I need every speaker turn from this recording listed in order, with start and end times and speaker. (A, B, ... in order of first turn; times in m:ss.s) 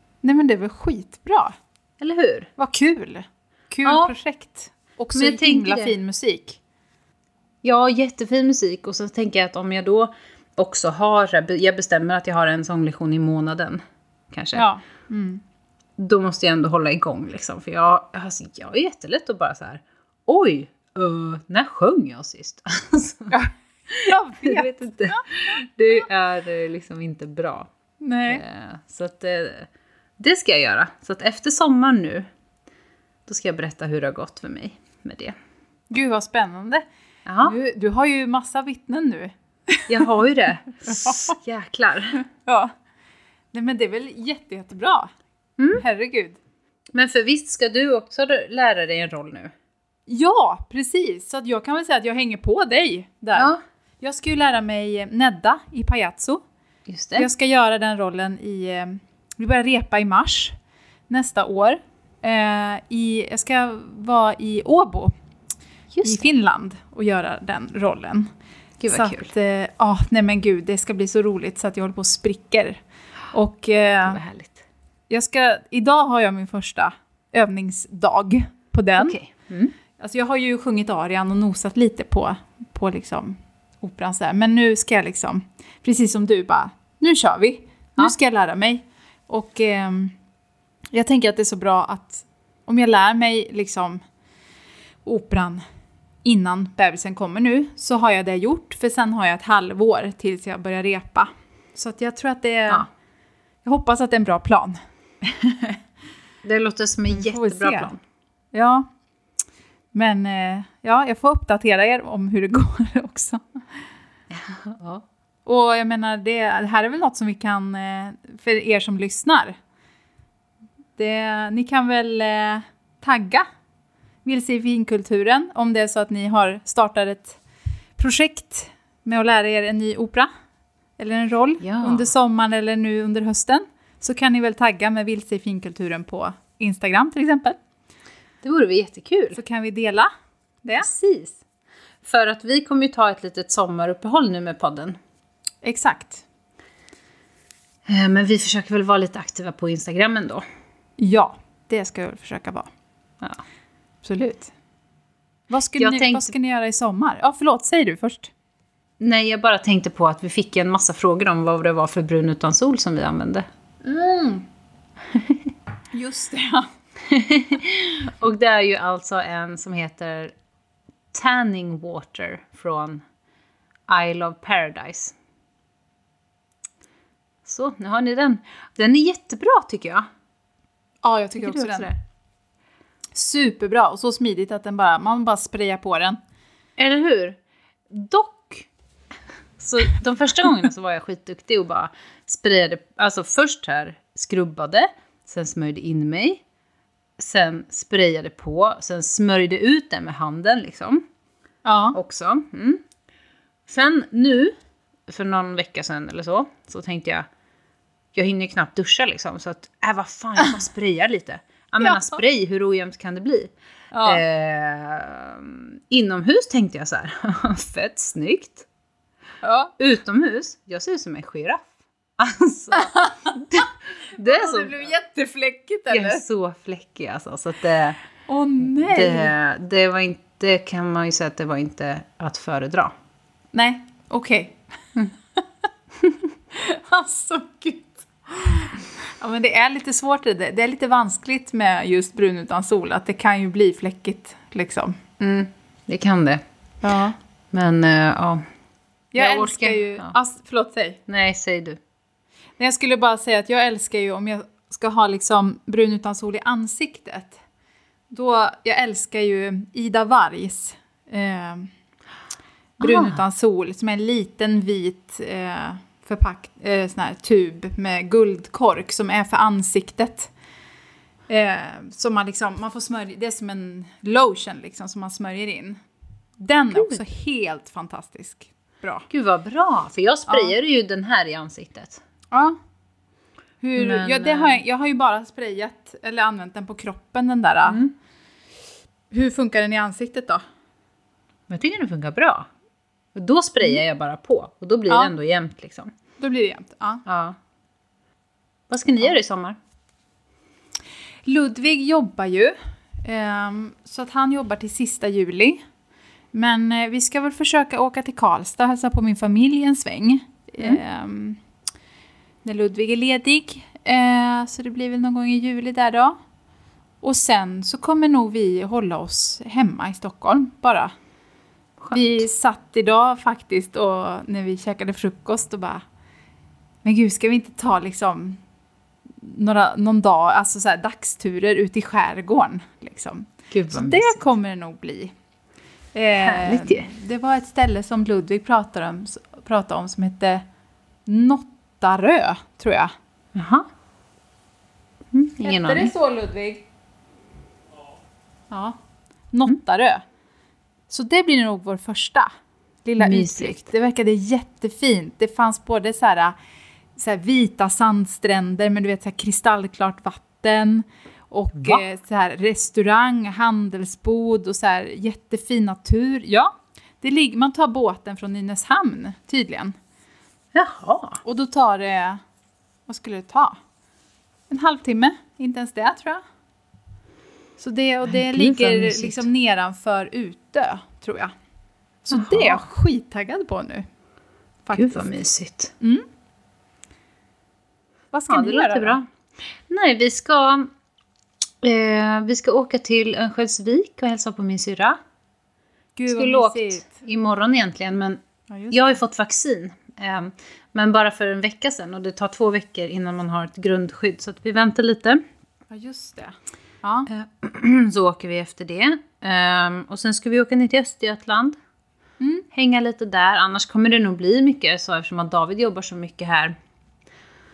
0:00.2-0:01.6 A
0:02.0-0:02.5 B
0:02.6-0:06.6 A
0:03.8-0:04.1 B
0:05.1-0:06.0 B
0:07.6-0:14.7 B
0:14.5-0:15.4 A
0:16.0-0:23.4 B
0:23.3-0:25.2 A
0:23.9-0:27.7 B
0:28.0-0:28.4 A
0:28.3-0:32.3 B
0:33.3-0:35.4 B
0:35.9-0:36.8 A
0:37.3-0:37.6 B
0:37.4-0:40.0 A
0:39.9-0:42.2 B
0:40.9-0:41.4 A
0:42.3-0:42.7 A
0:43.5-0:45.1 A
0:45.6-0:45.8 B
0:45.8-0:46.4 A
0:46.9-0:49.5 B
0:50.1-0:56.4 A
0:53.4-0:53.6 B
0:56.9-0:57.3 B
0:57.2-1:00.6 A
1:01.1-1:05.1 A
1:05.9-1:06.3 B
1:06.0-1:08.3 A
1:08.8-1:09.3 B
1:08.9-1:12.8 A
1:13.3-1:14.2 A
1:14.0-1:14.6 B
1:15.1-1:19.2 A
1:19.0-1:19.7 B
1:20.0-1:30.2 A
1:30.9-1:34.0 A
1:35.0-1:35.6 A
1:36.2-1:42.9 A
1:43.6-1:45.8 A
1:46.4-1:48.0 B
1:47.1-1:47.9 A
1:48.5-1:48.9 A
1:49.9-1:53.4 A
1:54.3-1:55.0 B
1:55.5-1:59.6 A
2:01.0-2:03.5 A
2:04.2-2:07.4 A
2:08.0-2:10.3 A
2:11.0-2:17.6 A
2:11.6-2:12.1 B
2:18.4-2:19.4 B
2:19.3-2:20.1 A
2:20.6-2:21.0 A
2:20.8-2:21.4 B
2:22.0-2:25.0 B
2:25.6-2:26.2 A
2:27.9-2:30.4 B
2:31.0-2:32.7 A
2:34.0-2:34.5 A
2:35.5-2:38.3 A
2:35.8-2:36.3 B
2:39.0-2:43.5 B
2:43.8-2:44.5 A
2:45.9-2:46.7 A
2:47.1-2:50.3 B
2:51.1-2:53.0 B
2:53.9-2:55.2 B
2:57.4-3:00.1 B
3:01.0-3:01.9 A
3:01.4-3:02.0 B
3:03.1-3:06.2 A
3:06.8-3:07.4 B
3:07.9-3:08.7 B
3:09.6-3:16.4 B
3:17.2-3:21.0 B
3:21.6-3:22.0 A
3:21.9-3:22.8 B
3:23.7-3:24.5 B
3:25.1-3:27.3 B
3:28.1-3:33.5 B
3:31.8-3:32.2 A
3:33.9-3:34.2 A
3:34.1-3:38.7 B
3:39.4-3:39.7 A
3:39.8-3:44.9 B
3:42.7-3:46.2 A
3:45.9-3:48.0 B
3:48.3-3:49.3 A
3:48.8-3:52.9 B
3:53.5-3:54.6 A
3:56.5-4:05.0 A
4:05.2-4:06.4 B
4:06.8-4:07.2 A
4:07.5-4:08.4 B
4:09.1-4:11.0 A
4:09.2-4:10.2 B
4:11.1-4:11.8 B
4:12.6-4:17.4 A
4:18.1-4:21.7 A
4:22.8-4:30.3 A
4:22.8-4:23.2 B
4:31.3-4:35.8 A
4:36.4-4:39.0 A
4:36.7-4:37.0 B
4:39.1-4:42.0 B
4:40.3-4:40.6 A
4:42.3-4:42.6 A
4:43.6-4:47.8 A
4:43.8-4:44.6 B
4:47.7-4:47.9 B
4:49.1-4:50.4 A
4:51.5-4:52.5 B
4:53.2-4:55.9 B
4:54.9-4:55.1 A
4:56.2-4:57.0 A
4:57.1-4:57.4 B
4:58.7-4:59.6 B
5:01.2-5:05.6 A
5:06.3-5:11.4 A
5:12.4-5:16.2 A
5:17.0-5:21.0 A
5:21.9-5:25.8 A
5:26.8-5:28.4 A
5:29.2-5:35.1 A
5:33.5-5:34.2 B
5:35.9-5:40.4 A
5:36.2-5:36.9 B
5:41.1-5:42.9 A
5:43.4-5:43.7 B
5:45.1-5:45.9 B
5:45.4-5:46.6 A
5:48.5-5:48.8 A
5:49.3-5:50.0 A
5:50.9-5:52.3 A
5:52.8-5:56.4 A
5:53.0-5:53.7 B
5:57.0-6:09.8 A
6:10.5-6:11.2 B
6:11.2-6:12.2 A
6:12.9-6:13.6 A
6:14.5-6:16.2 A
6:17.6-6:21.3 A
6:18.0-6:19.3 B
6:22.0-6:23.9 A
6:22.1-6:22.6 B
6:24.7-6:25.1 A
6:24.7-6:25.7 B
6:25.8-6:26.1 A
6:28.1-6:29.0 A
6:28.3-6:29.1 B
6:29.6-6:30.7 B
6:31.6-6:35.0 B
6:36.0-6:37.0 A
6:36.1-6:45.2 B
6:38.5-6:39.0 A
6:45.7-6:47.1 A
6:47.1-6:51.6 B
6:52.2-6:52.5 A
6:52.5-6:56.6 B